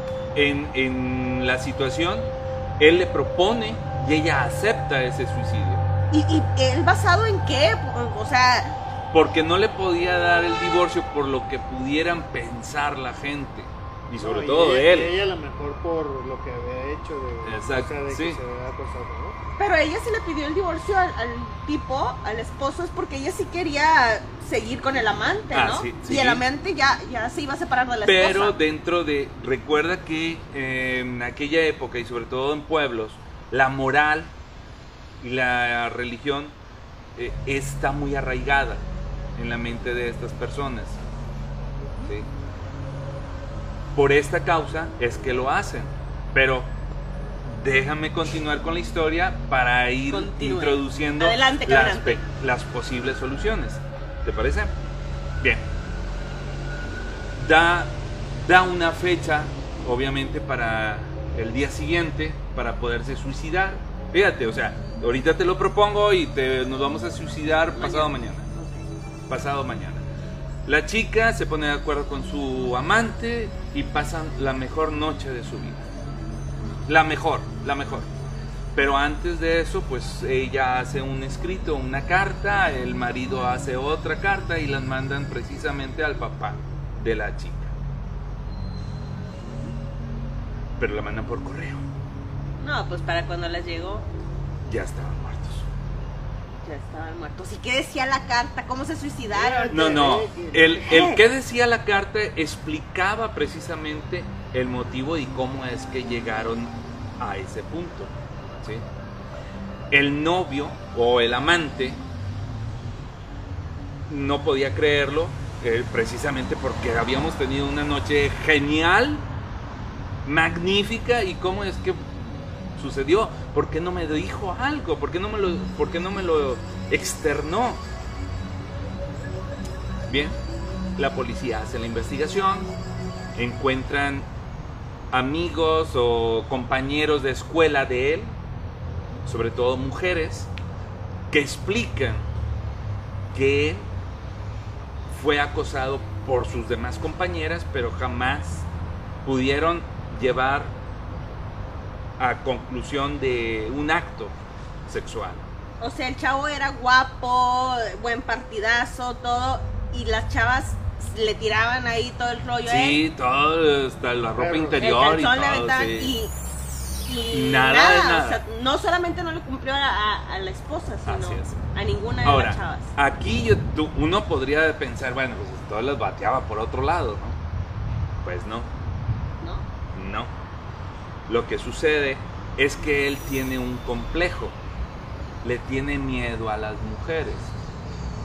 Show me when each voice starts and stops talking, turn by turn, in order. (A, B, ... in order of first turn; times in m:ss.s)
0:00.4-0:05.9 A
0:06.1-0:08.8 B
0:09.1-0:15.1 A
0:14.2-0:19.4 C
0:17.4-0:18.4 A
0:19.6-0:28.6 B
0:25.5-0:26.4 A
0:28.1-0:34.3 A
0:35.2-0:36.6 A
0:37.2-0:41.0 A
0:44.0-0:46.7 A
0:47.4-0:54.7 A
0:50.1-0:52.2 B
0:55.4-0:55.7 A
0:57.3-1:08.5 A
1:07.8-1:08.8 B
1:09.3-1:10.0 A
1:10.7-1:15.9 A
1:16.9-1:18.1 A
1:18.8-1:27.7 A
1:30.8-1:31.8 A
1:32.6-1:34.1 B
1:34.6-1:35.7 A
1:36.6-1:40.1 B
1:39.3-1:41.0 C
1:39.7-1:48.8 A
1:40.8-1:41.2 B
1:49.9-1:52.0 A
1:54.1-1:59.3 A
2:00.2-2:07.8 A
2:10.1-2:10.4 A
2:11.0-2:12.7 A
2:13.4-2:14.3 A
2:15.1-2:18.4 A
2:19.3-2:20.5 A
2:21.3-2:22.2 A
2:23.3-2:23.9 A
2:25.1-2:28.7 A
2:29.2-2:30.8 A
2:32.2-2:34.4 A
2:34.9-2:35.5 A
2:35.8-2:43.0 B
2:42.7-2:46.2 A
2:44.4-2:44.9 C
2:44.8-2:46.3 B
2:47.1-2:52.9 B
2:47.3-2:48.4 A
2:51.1-2:51.6 A
2:52.2-2:57.4 A
2:58.2-2:58.7 A
2:59.4-2:59.7 B
2:59.9-3:00.3 A
3:01.3-3:04.6 A
3:05.4-3:07.5 A